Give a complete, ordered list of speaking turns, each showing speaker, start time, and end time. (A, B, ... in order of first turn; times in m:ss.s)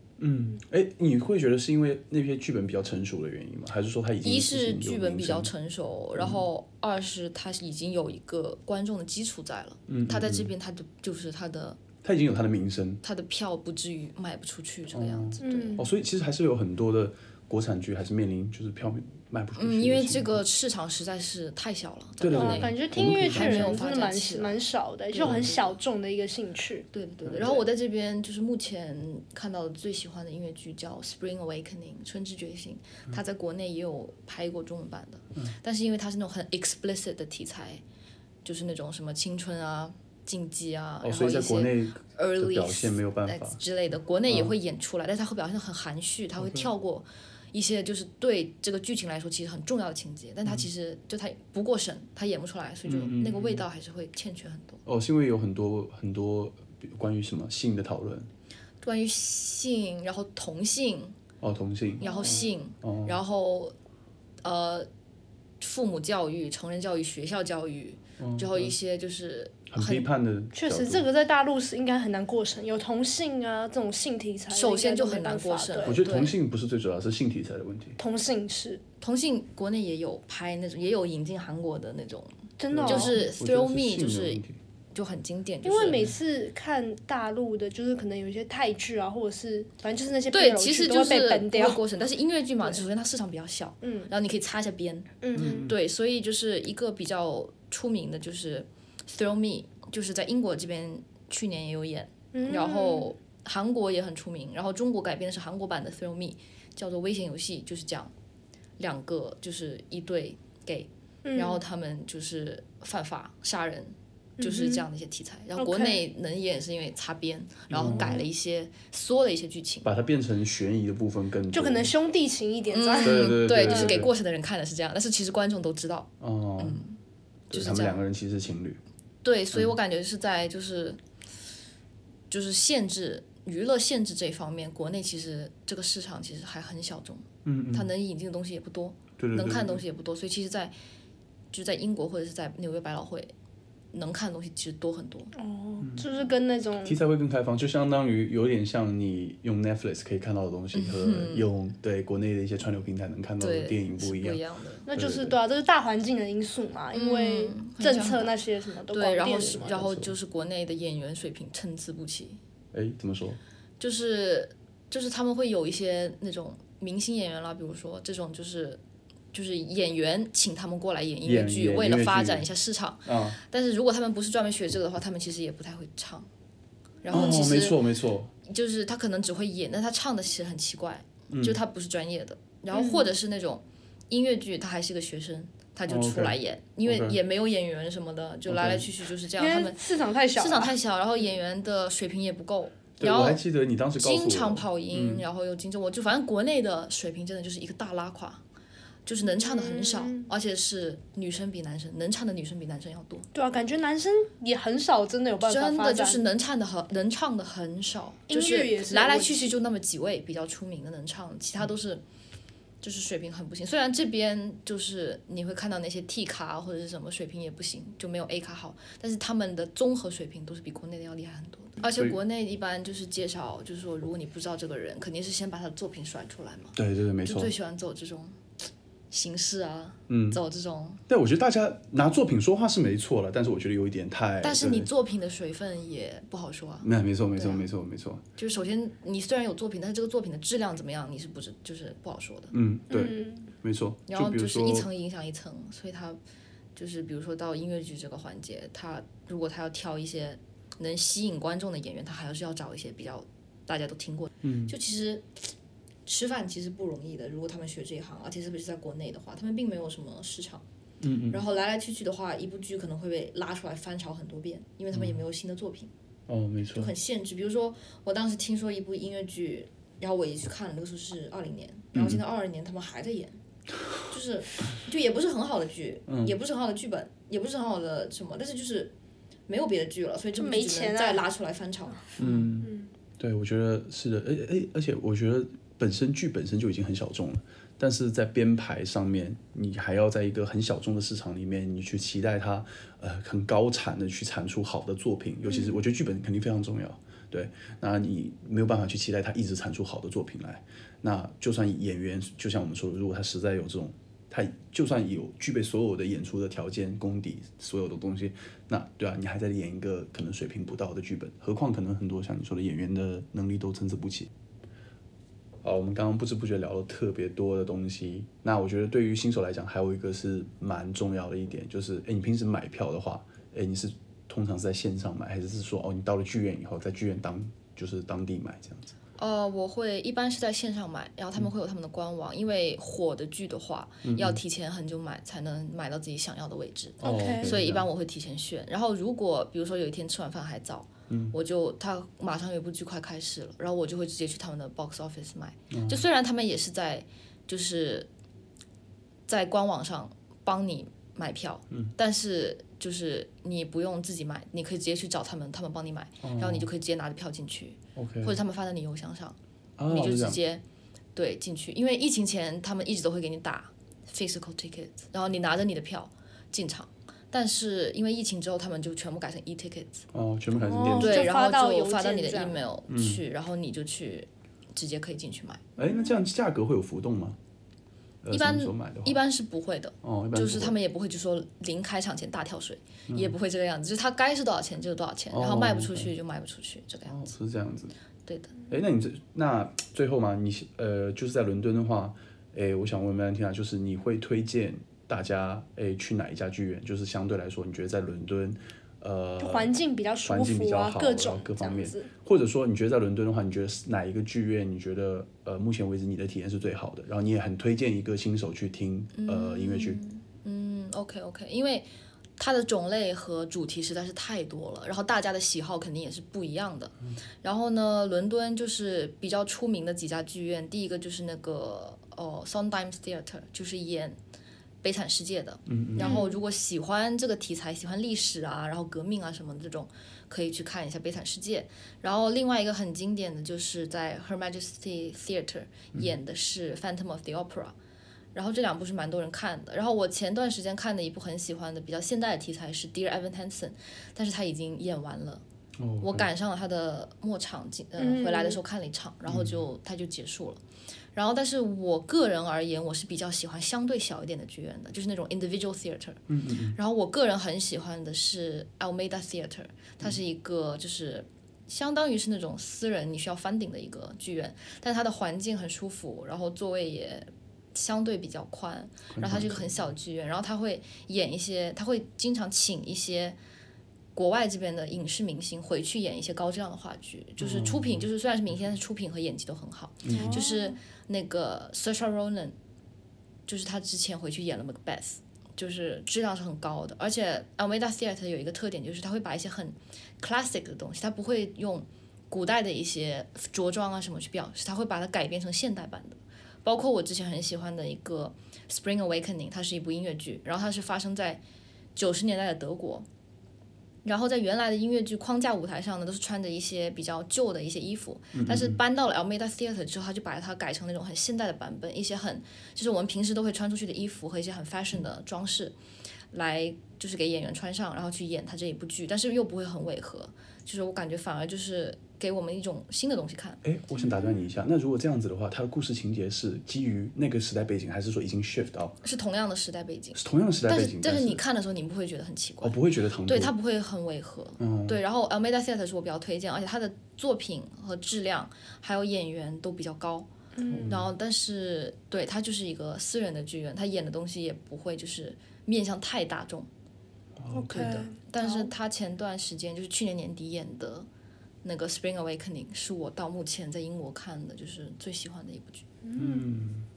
0:00.2-0:05.5 A
0:04.2-0:11.8 B
0:06.2-0:06.4 A
0:09.9-0:10.5 A
0:12.0-0:13.0 A
0:13.0-0:15.8 B
0:14.9-0:20.4 A
0:15.4-0:15.8 C
0:19.6-0:24.6 B
0:22.2-0:23.8 A
0:22.3-0:26.9 C
0:25.1-0:25.8 B
0:25.2-0:25.5 A
0:26.9-0:37.8 B
0:27.2-0:27.6 A
0:38.4-0:54.8 B
0:41.0-0:43.6 A
0:44.3-0:44.5 A
0:46.4-0:46.7 A
0:52.8-0:53.6 A
0:54.8-0:58.3 A
0:58.8-1:01.2 B
1:01.4-1:03.2 A
1:02.0-1:03.7 B
1:02.0-1:02.5 C
1:04.4-1:04.9 B
1:05.6-1:10.1 B
1:08.2-1:08.7 A
1:09.7-1:11.0 A
1:10.5-1:16.0 C
1:14.5-1:16.4 B
1:15.8-1:18.0 A
1:18.0-1:18.8 C
1:19.0-1:24.4 B
1:22.6-1:23.2 C
1:22.7-1:24.6 A
1:24.9-1:26.0 B
1:25.6-1:31.8 C
1:30.3-1:48.1 B
1:33.8-1:34.1 C
1:35.2-1:35.7 C
1:35.3-1:35.8 A
1:42.3-1:43.1 C
1:48.8-1:59.9 B
1:51.2-1:51.6 C
1:54.4-1:54.8 C
1:55.6-1:56.0 C
1:57.7-1:58.2 A
1:58.0-1:58.2 C
1:59.8-2:01.9 A
2:01.5-2:04.0 C
2:02.7-2:07.0 B
2:03.0-2:04.1 A
2:06.2-2:06.8 A
2:07.5-2:08.8 A
2:07.5-2:08.0 B
2:09.2-2:11.0 B
2:12.3-2:20.7 B
2:17.4-2:17.9 A
2:19.2-2:19.8 A
2:21.5-2:23.3 B
2:23.9-2:25.3 B
2:25.3-2:27.0 C
2:25.8-2:26.1 A
2:26.8-2:34.4 A
2:30.7-2:31.5 B
2:33.4-2:34.9 B
2:34.9-2:39.8 C
2:34.9-2:35.4 A
2:36.9-2:38.3 B
2:38.9-2:42.4 B
2:39.6-2:40.1 A
2:42.7-2:43.4 A
2:43.8-2:48.8 B
2:49.3-2:56.3 B
2:51.2-2:52.4 A
2:53.0-2:53.4 A
2:57.0-2:57.8 B
2:57.1-2:58.3 A
2:58.4-3:09.8 B
3:01.3-3:01.6 A
3:02.7-3:03.1 C
3:05.9-3:07.2 A
3:08.5-3:08.9 A
3:09.4-3:10.8 C
3:10.3-3:13.4 B
3:13.0-3:15.2 A
3:14.0-3:18.4 B
3:19.0-3:23.3 B
3:19.2-3:20.3 C
3:23.3-3:26.2 C
3:25.4-3:32.0 B
3:28.3-3:29.5 C
3:32.8-3:48.4 B
3:41.8-3:42.2 A
3:46.8-3:47.5 A
3:49.1-3:51.0 B
3:50.1-3:50.4 A
3:51.1-3:54.9 A
3:54.4-3:57.6 B
3:56.8-3:58.2 A
3:58.4-4:02.5 B
4:02.5-4:04.9 A
4:02.9-4:03.5 C
4:04.1-4:06.2 B
4:06.8-4:15.5 B
4:14.4-4:14.7 A
4:16.0-4:20.6 B
4:21.0-4:21.4 A
4:21.3-4:25.9 B
4:24.9-4:25.2 A
4:26.3-4:26.9 A
4:26.7-4:33.4 B
4:31.9-4:32.2 A
4:34.0-4:38.9 B
4:36.1-4:36.4 A
4:39.5-4:42.2 B
4:40.4-4:41.2 C
4:42.2-5:14.3 A
4:42.6-4:42.9 C
5:15.6-5:28.9 A
5:29.2-5:48.1 B
5:34.0-5:34.4 A
5:37.0-5:37.9 A
5:37.0-5:37.5 C
5:41.1-5:41.3 A
5:45.7-5:46.0 A
5:49.3-5:59.4 B
5:56.2-5:56.7 A
5:58.0-5:58.4 A
5:59.8-6:00.4 A
5:59.9-6:00.6 B
6:01.1-6:10.1 B
6:10.1-6:11.3 A
6:10.6-6:12.6 C
6:10.9-6:15.8 B
6:12.9-6:13.2 A
6:15.8-6:17.4 A
6:18.2-6:19.2 A
6:18.3-6:27.3 B
6:20.0-6:20.8 A
6:23.1-6:23.4 A
6:25.3-6:26.1 A
6:27.0-6:27.9 A
6:28.2-6:28.6 B
6:28.7-6:39.7 A
6:39.4-6:42.1 C
6:40.2-6:50.0 A
6:49.1-7:04.2 B
7:04.8-7:17.7 B
7:05.7-7:06.2 A
7:06.0-7:06.4 C
7:18.3-7:25.4 B
7:25.8-7:26.3 A
7:26.0-7:30.6 B
7:28.0-7:28.6 C
7:29.3-7:29.6 A
7:31.1-7:36.2 B
7:36.3-7:36.8 A
7:36.7-7:53.4 B
7:49.1-7:49.7 A
7:54.1-8:02.5 B
7:57.4-7:58.1 A
8:00.0-8:00.4 A
8:00.1-8:00.8 C
8:03.5-8:21.4 B
8:21.9-8:23.0 B
8:24.0-8:35.7 B
8:28.3-8:28.8 A
8:36.3-8:43.6 B
8:43.6-8:49.0 A
8:49.0-9:06.7 B
8:50.1-8:51.4 A
8:52.6-8:53.5 A
8:54.6-8:55.0 A
9:00.5-9:00.9 C
9:00.7-9:01.1 A
9:07.4-9:08.0 A
9:07.5-9:08.7 C
9:07.7-9:11.1 B
9:11.6-9:15.8 B
9:16.0-9:16.5 C
9:16.2-9:16.9 A